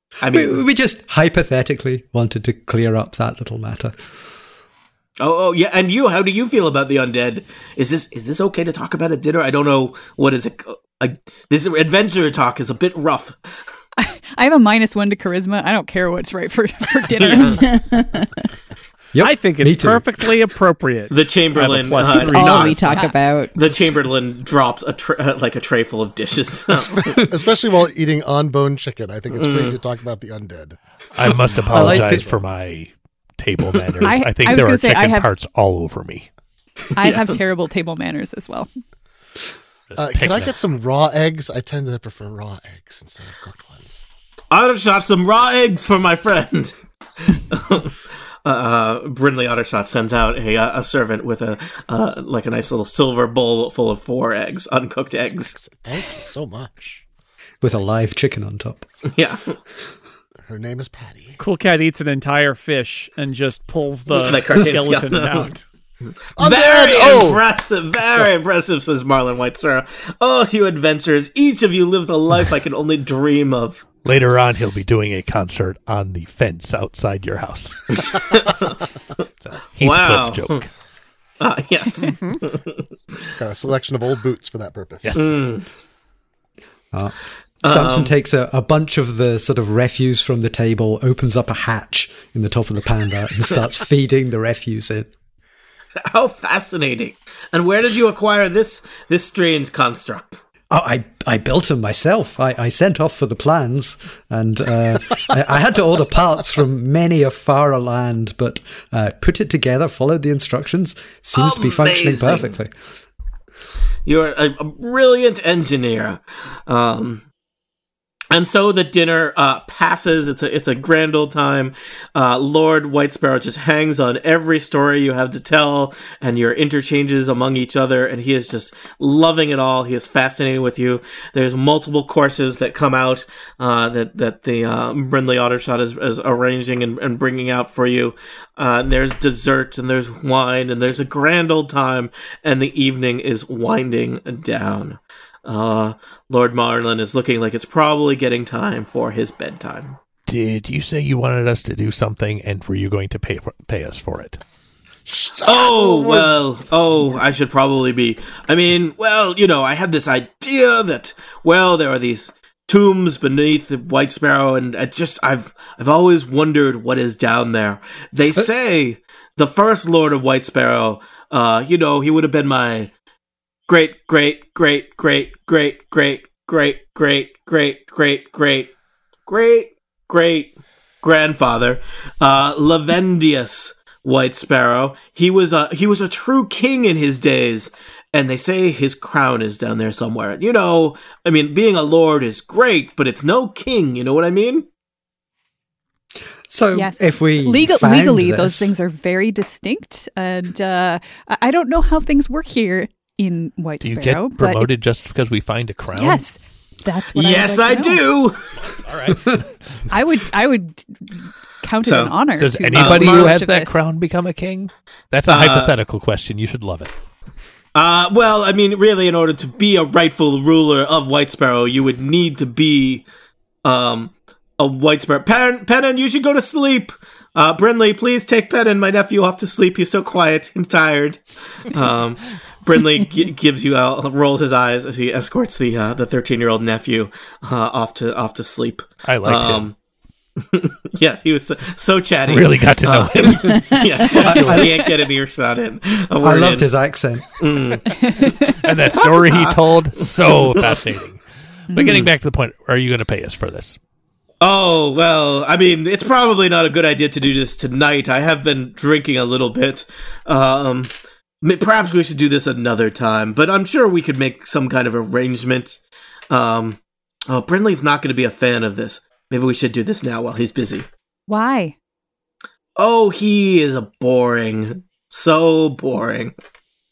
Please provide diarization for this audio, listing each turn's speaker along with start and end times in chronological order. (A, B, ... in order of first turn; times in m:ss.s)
0:00.2-0:00.6 A
0:00.2-0:03.9 B
0:05.2-0:13.4 A
0:14.0-0:17.7 C
0:17.3-0:17.5 A
0:17.4-0:18.3 D
0:19.1-0:20.2 B
0:19.2-0:23.0 E
0:21.1-0:22.9 A
0:22.1-0:23.6 D
0:22.9-0:23.1 C
0:23.5-0:27.2 A
0:26.7-0:32.5 F
0:29.3-0:29.8 A
0:31.1-0:36.3 G
0:31.7-0:32.4 B
0:34.0-0:35.3 C
0:37.0-0:38.7 C
0:39.9-0:40.5 G
0:40.0-0:44.0 F
0:44.5-0:55.6 A
0:55.2-0:57.0 F
0:57.6-0:58.8 B
0:59.1-0:59.6 A
1:00.5-1:01.4 F
1:01.4-1:05.6 E
1:04.2-1:05.5 A
1:06.4-1:07.4 F
1:06.4-1:13.8 A
1:14.0-1:18.0 G
1:18.3-1:18.7 A
1:19.4-1:20.7 G
1:19.8-1:20.6 A
1:21.4-1:22.8 A
1:23.4-1:25.2 F
1:25.0-1:25.3 G
1:25.1-1:25.6 A
1:26.9-1:35.1 B
1:27.6-1:28.1 A
1:36.0-1:40.4 A
1:40.7-1:52.7 B
1:51.3-1:52.5 A
1:54.0-1:57.2 A
1:58.3-2:30.0 A
2:30.3-2:34.4 G
2:35.1-2:36.3 F
2:35.4-2:52.9 A
2:53.7-2:58.7 A
2:59.3-3:14.7 A
3:16.5-3:18.7 B
3:16.7-3:24.7 C
3:23.8-3:26.2 G
3:25.9-3:28.0 C
3:27.1-3:28.4 A
3:28.8-3:29.4 G
3:29.9-3:33.8 C
3:31.8-3:32.1 A
3:32.4-3:36.9 G
3:32.7-3:33.4 A
3:35.3-3:35.7 A
3:37.7-3:43.0 A
3:43.6-3:59.7 A
3:59.0-3:59.7 G
4:00.4-4:06.7 A
4:02.3-4:03.8 G
4:04.1-4:04.9 B
4:06.2-4:07.3 B
4:07.4-4:10.8 A
4:08.0-4:08.5 C
4:08.4-4:13.8 G
4:11.7-4:12.0 C
4:14.4-4:30.9 A
4:31.3-4:31.7 C
4:32.8-4:36.3 A